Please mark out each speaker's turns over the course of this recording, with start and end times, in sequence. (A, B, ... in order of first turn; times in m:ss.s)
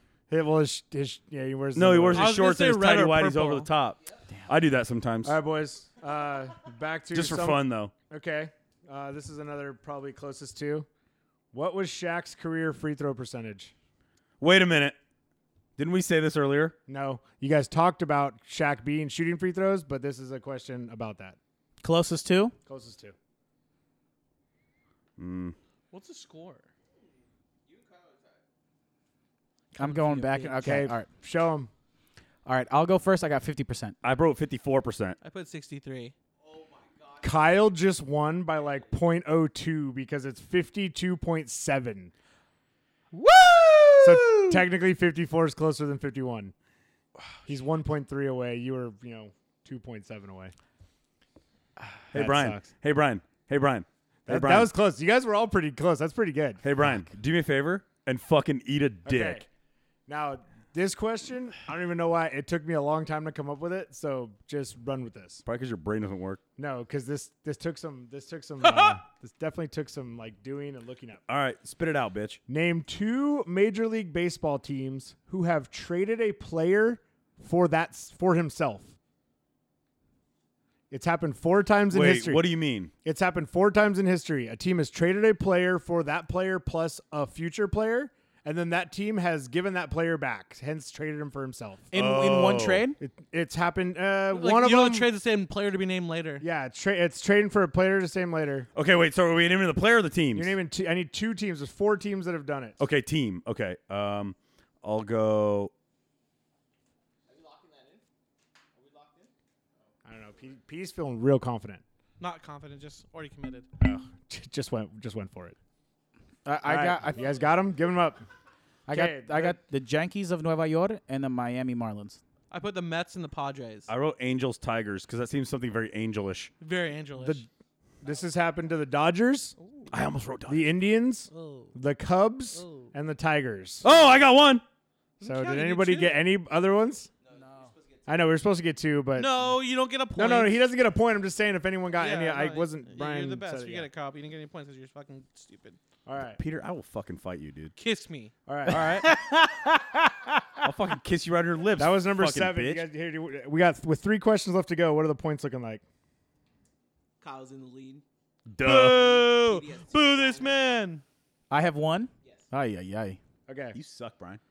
0:00.3-0:02.4 A
0:01.7-0:05.4 B
0:02.1-0:03.7 C
0:05.2-0:10.9 A
0:07.1-0:07.9 B
0:11.5-0:13.7 A
0:14.4-0:15.0 B
0:15.8-0:16.8 B
0:16.9-0:21.4 A
0:21.8-0:22.6 D
0:22.7-0:23.2 A
0:25.2-0:25.6 B
0:25.9-0:26.7 C
0:27.7-0:28.4 E
0:29.7-0:30.6 C
0:29.8-0:31.1 D
0:30.6-0:31.7 A
0:32.4-0:34.0 D
0:34.0-0:35.2 B
0:35.2-0:36.1 C
0:36.4-0:37.3 E
0:37.2-0:42.1 A
0:43.1-0:44.6 D
0:44.0-0:46.5 A
0:47.4-0:50.5 A
0:52.1-0:54.7 B
0:52.1-0:52.7 A
0:54.3-0:56.6 A
0:56.6-0:59.4 B
0:59.1-0:59.5 A
1:00.1-1:05.4 A
1:05.4-1:06.4 B
1:06.6-1:11.2 A
1:11.3-1:12.4 B
1:12.5-1:18.9 A
1:20.9-1:22.4 A
1:21.9-1:22.9 B
1:23.0-1:31.9 A
1:31.9-1:33.0 D
1:31.9-1:32.9 B
1:33.0-1:35.1 A
1:34.3-1:36.4 C
1:36.4-1:38.7 A
1:38.8-1:40.6 B
1:40.3-1:42.8 A
1:42.8-1:45.7 B
1:47.3-1:48.0 E
1:48.8-1:49.3 E
1:50.0-1:51.8 A
1:52.2-1:53.7 C
1:53.8-1:55.6 A
1:56.4-1:57.4 D
1:56.6-1:58.2 A
1:58.9-2:02.2 D
1:58.9-1:59.6 A
2:02.5-2:03.9 C
2:03.9-2:06.5 B
2:06.6-2:07.4 C
2:07.2-2:07.5 A
2:08.0-2:09.6 A
2:09.6-2:09.9 C
2:09.9-2:10.8 B
2:10.5-2:13.9 A
2:11.3-2:11.8 C
2:12.5-2:12.9 C
2:13.8-2:14.6 B
2:15.2-2:16.3 C
2:15.2-2:17.1 A
2:17.2-2:18.1 E
2:18.1-2:19.4 A
2:19.2-2:20.6 C
2:20.2-2:23.9 A
2:22.0-2:25.8 C
2:26.0-2:26.4 A
2:26.2-2:27.7 B
2:27.8-2:28.3 C
2:28.5-2:29.2 A
2:28.7-2:30.7 D
2:30.6-2:32.8 B
2:31.8-2:35.8 A
2:37.2-2:38.0 E
2:38.5-2:39.2 B
2:38.6-2:41.0 C
2:39.0-2:40.8 E
2:41.5-2:43.2 D
2:43.5-2:43.8 A
2:43.7-2:44.4 B